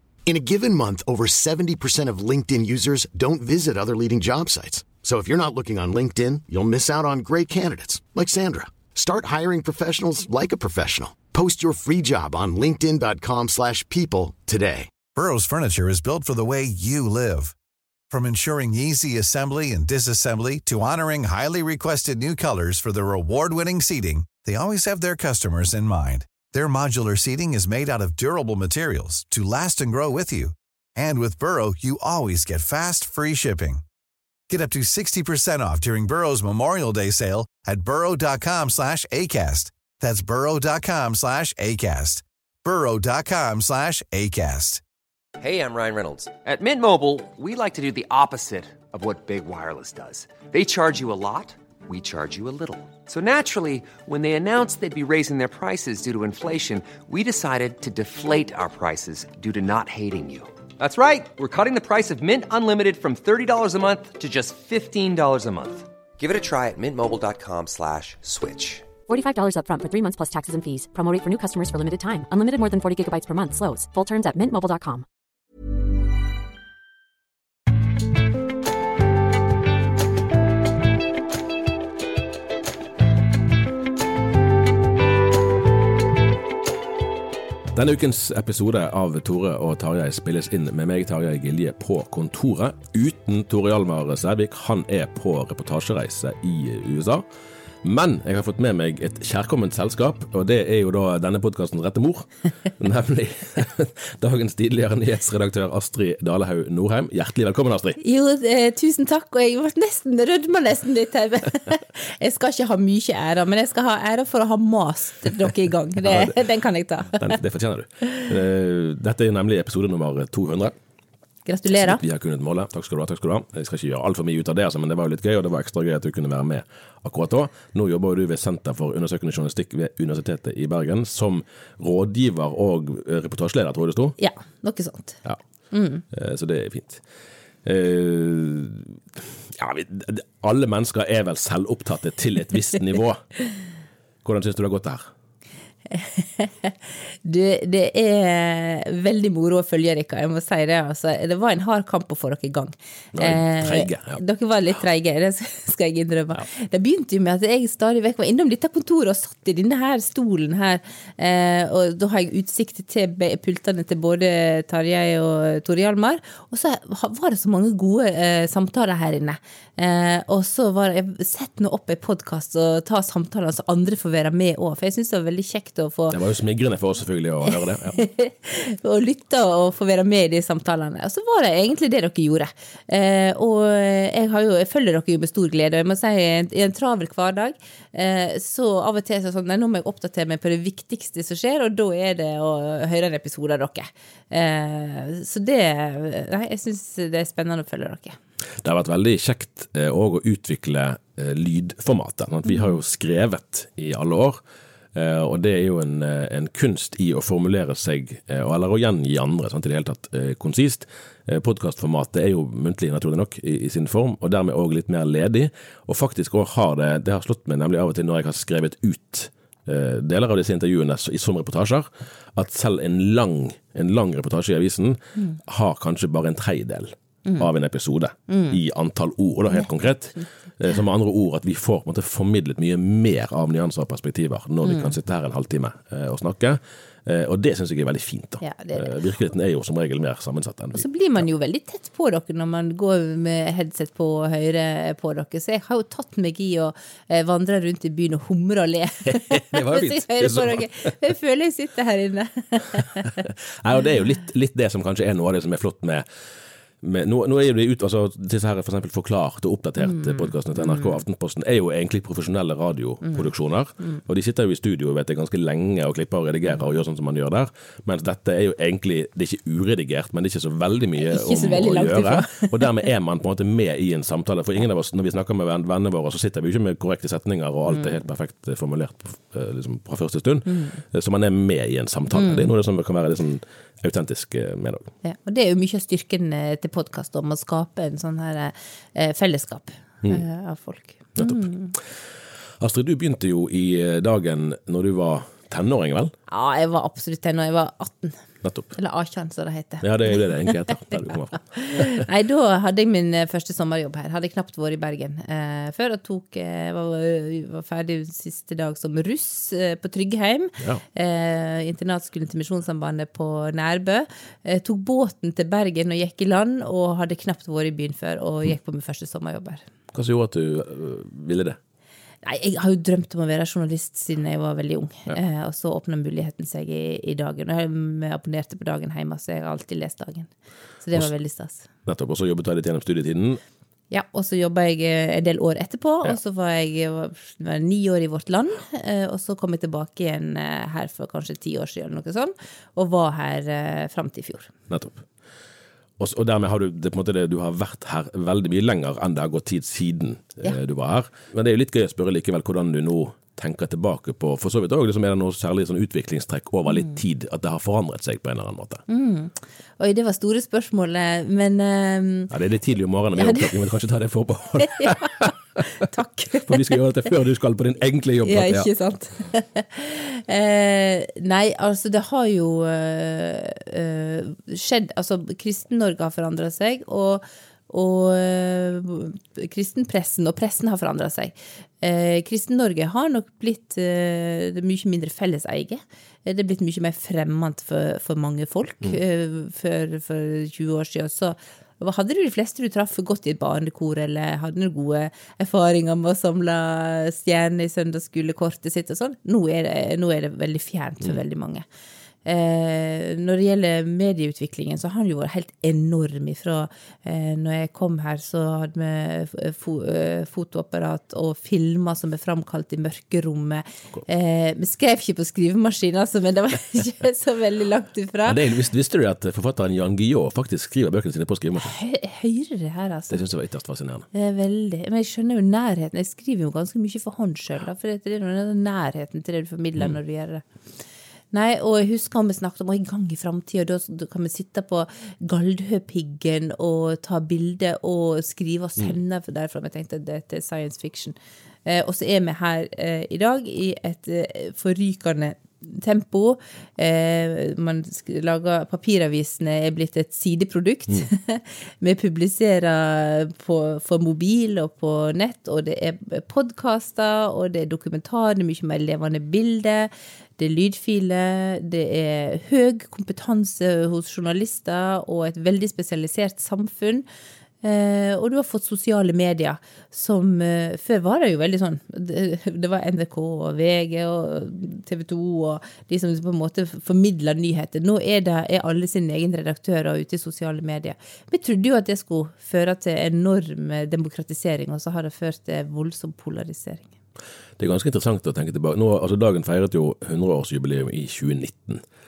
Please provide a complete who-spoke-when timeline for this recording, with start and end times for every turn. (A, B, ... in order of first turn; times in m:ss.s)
0:00.2-0:14.9 A
0:15.1-0:17.5 B
0:18.1-0:33.8 B
0:34.5-0:44.8 B
0:45.4-1:09.0 C
1:09.0-1:15.0 D
1:27.7-1:37.2 E
1:37.8-1:48.0 E
1:48.0-1:57.3 F
1:56.0-1:56.3 E
1:57.1-2:00.7 E
2:01.4-2:02.0 F
2:01.7-2:14.2 E
2:14.2-2:15.2 F
2:15.7-2:16.0 F
2:16.1-2:17.0 E
2:17.6-2:23.3 E
2:24.2-2:25.1 E
2:25.9-2:56.2 F
2:33.1-2:34.2 E
2:56.1-2:58.0 E
2:57.4-3:18.2 F
3:18.6-3:24.4 E
3:24.9-4:00.8 E
3:48.3-3:48.6 F
3:49.5-3:50.2 F
3:54.6-3:54.9 F
3:58.4-3:59.0 F
4:00.7-4:13.2 F
4:09.3-4:10.7 E
4:13.2-4:16.0 E
4:16.8-4:44.9 E
4:19.8-4:21.0 F
4:31.0-4:32.7 F
4:37.7-4:38.0 F
4:40.5-4:40.8 F
4:42.1-4:42.5 F
4:45.0-4:51.7 F
4:51.2-4:51.5 E
4:52.6-4:56.1 E
4:56.3-4:58.2 F
4:58.4-4:58.7 E
4:58.7-5:19.6 F
4:59.8-5:02.0 E
5:19.9-5:21.6 E
5:22.2-5:30.3 F
5:30.8-5:31.7 F
5:31.8-5:33.4 E
5:33.9-5:44.5 F
5:44.7-5:45.0 E
5:46.0-5:58.8 E
5:58.9-6:02.3 F
6:02.3-6:05.6 E
6:03.2-6:03.5 F
6:04.7-6:05.1 F
6:05.8-6:06.6 F
6:06.4-6:08.7 E
6:08.2-6:41.6 F
6:42.2-6:58.4 F
6:58.2-7:01.7 E
7:01.6-7:03.2 F
7:03.1-7:04.1 E
7:04.1-7:10.4 F
7:11.3-7:47.0 F
7:47.6-8:06.9 F
8:07.6-8:11.8 E